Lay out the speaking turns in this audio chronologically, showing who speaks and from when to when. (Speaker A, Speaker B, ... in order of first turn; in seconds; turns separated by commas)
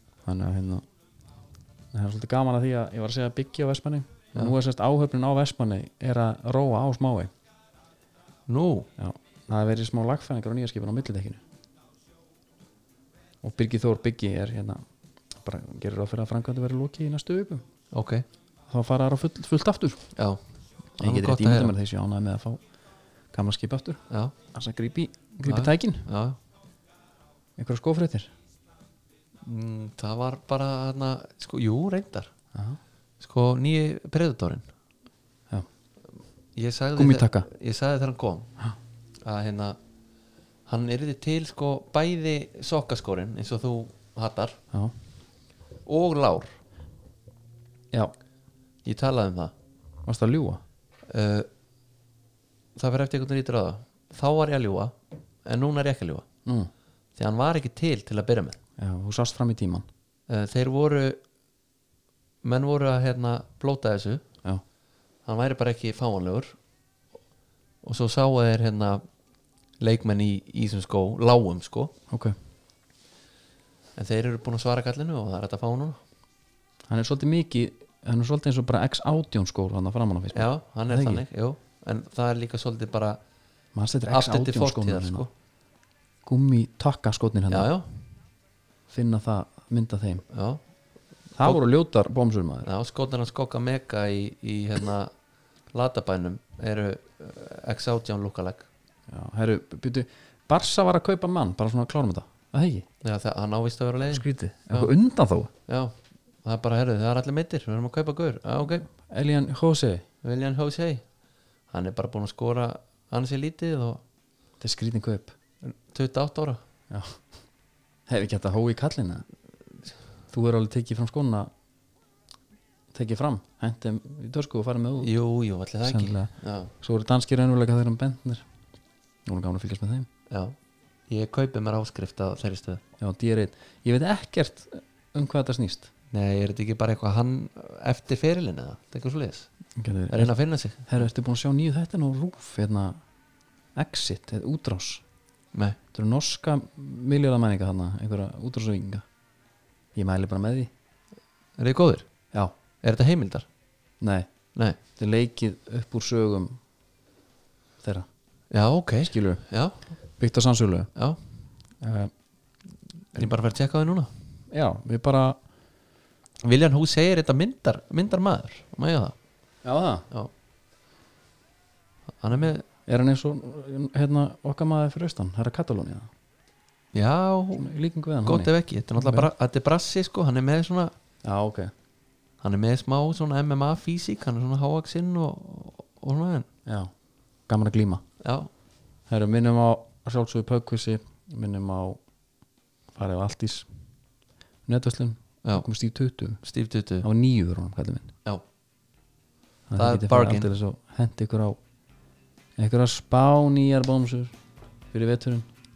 Speaker A: 0.2-0.8, Speaker A: 1.9-7.3, Speaker B: 8.5-8.9, Speaker A: 9.0-11.4, Speaker A: 13.4-14.8, Speaker A: 15.3-17.6, Speaker B: 17.9-18.2, Speaker A: 18.7-20.0, Speaker A: 21.0-22.6, Speaker B: 21.0-21.7, Speaker A: 23.3-24.0, Speaker A: 24.5-26.1, Speaker B: 25.4-26.4, Speaker A: 27.6-28.3, Speaker B: 29.4-32.3, Speaker A: 32.5-32.8, Speaker B: 33.2-34.6, Speaker B: 36.5-38.5, Speaker A: 37.0-37.5, Speaker B: 39.2-39.8, Speaker B: 40.7-44.6, Speaker B: 45.9-46.6, Speaker B: 48.8-49.5, Speaker A: 50.0-50.6, Speaker B: 51.1-51.5, Speaker B: 52.8-54.9, Speaker B: 55.5-56.2, Speaker A: 56.4-56.7, Speaker B: 57.1-58.6, Speaker A: 58.8-59.9, Speaker B: 60.3-61.2, Speaker B: 62.4-64.2, Speaker B: 65.2-66.5, Speaker B: 67.8-69.0, Speaker B: 69.8-71.9, Speaker A: 72.1-72.3, Speaker B: 74.0-76.0, Speaker A: 76.9-81.2, Speaker B: 80.3-83.2, Speaker A: 83.7-85.2, Speaker B: 84.1-85.3, Speaker A: 86.2-87.7, Speaker B: 87.5-87.9, Speaker A: 88.9-90.2, Speaker B: 90.3-90.6, Speaker A: 91.3-92.7, Speaker B: 92.6-95.1, Speaker B: 95.7-98.7, Speaker A: 99.1-102.8, Speaker B: 103.0-104.9, Speaker A: 104.1-105.5, Speaker B: 105.7-108.8, Speaker A: 109.0-110.0, Speaker B: 110.2-111.0, Speaker B: 111.7-114.0, Speaker A: 114.6-115.3, Speaker B: 115.6-116.6, Speaker A: 116.9-117.2, Speaker A: 118.1-119.2, Speaker A: 120.3-121.5, Speaker A: 122.9-125.1, Speaker B: 125.0-126.7, Speaker A: 125.8-128.4, Speaker A: 129.2-130.1, Speaker B: 130.3-130.5, Speaker B: 131.1-132.8, Speaker A: 133.0-135.9, Speaker B: 136.1-139.5, Speaker A: 139.8-140.3, Speaker B: 140.1-141.0, Speaker A: 140.9-143.0, Speaker A: 143.8-145.0, Speaker A: 145.9-149.0, Speaker A: 149.9-150.7, Speaker B: 151.6-152.1, Speaker B: 152.8-153.5, Speaker A: 154.0-154.3, Speaker A: 154.9-156.6, Speaker A: 157.8-158.1, Speaker B: 158.5-159.8, Speaker A: 159.0-159.4, Speaker A: 160.2-160.9, Speaker A: 161.8-162.1, Speaker B: 163.1-164.1, Speaker A: 164.5-165.4, Speaker B: 166.4-169.1, Speaker A: 169.6-170.1, Speaker B: 172.2-172.6, Speaker A: 172.9-176.1, Speaker B: 176.9-177.7, Speaker A: 177.6-179.3, Speaker B: 178.2-180.9, Speaker A: 181.2-181.7, Speaker B: 182.4-186.5, Speaker A: 186.7-186.9, Speaker A: 187.5-188.0, Speaker B: 188.2-188.5, Speaker A: 189.1-192.0, Speaker A: 192.9-193.7, Speaker A: 194.7-196.4, Speaker B: 196.4-197.1, Speaker A: 197.0-198.1, Speaker A: 199.7-201.6, Speaker B: 199.8-200.5, Speaker A: 202.6-204.3, Speaker A: 204.9-205.5